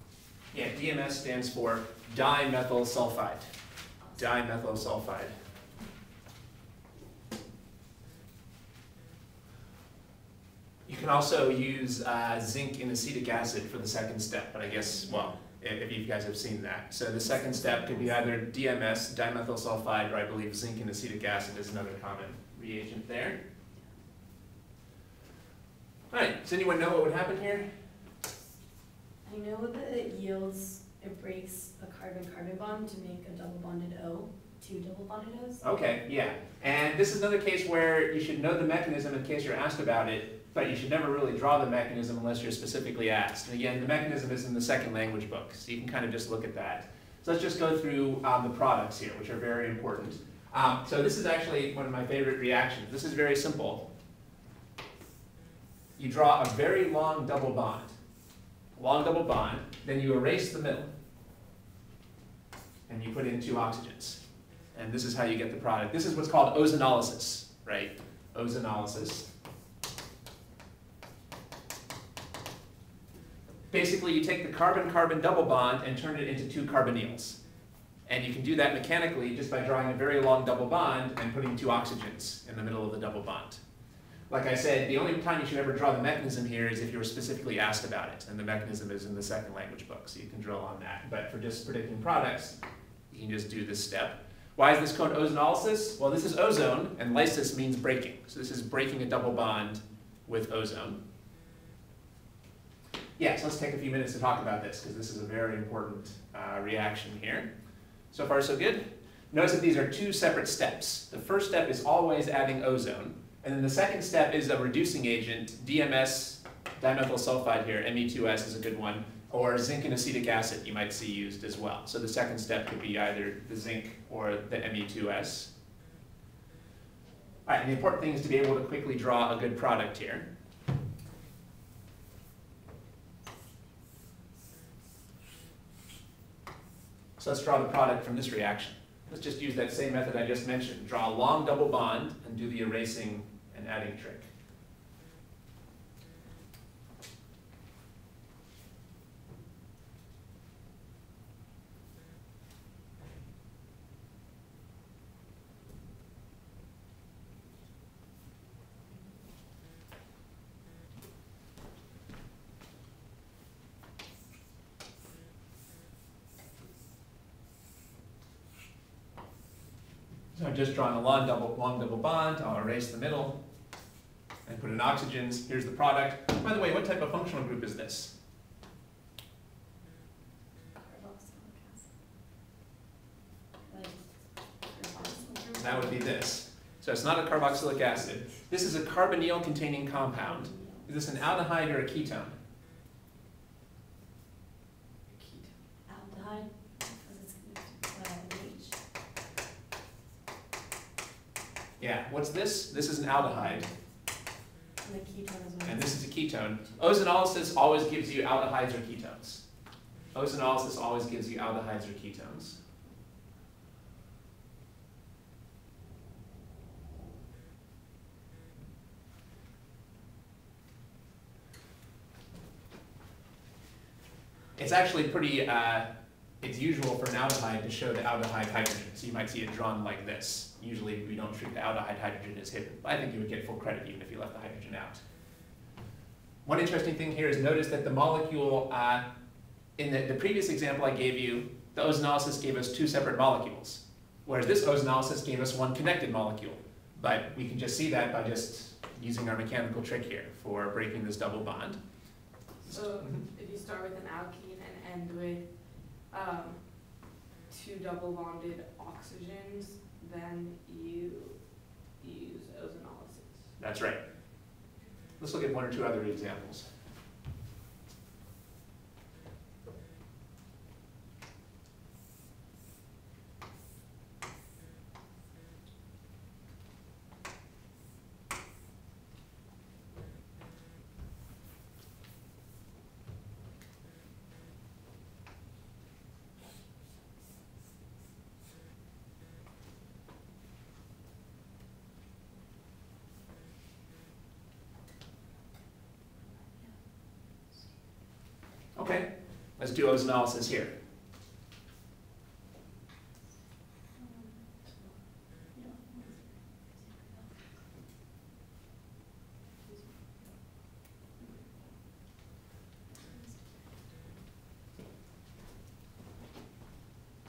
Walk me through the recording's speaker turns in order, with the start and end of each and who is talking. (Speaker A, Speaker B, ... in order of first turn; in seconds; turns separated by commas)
Speaker A: 0.5-3.5, Speaker A: 4.1-5.3, Speaker A: 10.8-23.4, Speaker B: 14.7-15.4, Speaker B: 17.2-18.3, Speaker A: 26.1-27.7, Speaker B: 29.2-35.6, Speaker A: 35.6-53.9, Speaker A: 56.0-57.9, Speaker A: 58.8-60.9, Speaker A: 62.9-64.2, Speaker A: 64.7-69.3, Speaker A: 73.7-77.4, Speaker A: 78.1-83.6, Speaker A: 84.3-92.6, Speaker A: 93.1-101.0, Speaker A: 103.2-107.5, Speaker A: 108.1-125.5, Speaker A: 127.5-130.3, Speaker A: 137.2-144.3, Speaker A: 170.3-173.4, Speaker A: 174.4-178.1, Speaker B: 180.8-181.9, Speaker B: 183.7-184.0, Speaker B: 184.7-185.8, Speaker C: 184.8-185.9, Speaker A: 185.6-192.3, Speaker B: 190.2-190.9, Speaker C: 195.1-195.6, Speaker B: 195.9-198.8, Speaker A: 201.8-203.7, Speaker B: 204.8-206.0, Speaker A: 205.6-209.4, Speaker A: 210.1-212.6, Speaker A: 224.6-225.9, Speaker A: 226.4-235.0, Speaker A: 236.4-239.0, Speaker A: 239.8-251.8, Speaker C: 252.6-263.5, Speaker A: 252.7-253.2, Speaker A: 263.6-264.1, Speaker A: 265.2-266.6, Speaker A: 298.7-300.7, Speaker B: 305.5-306.1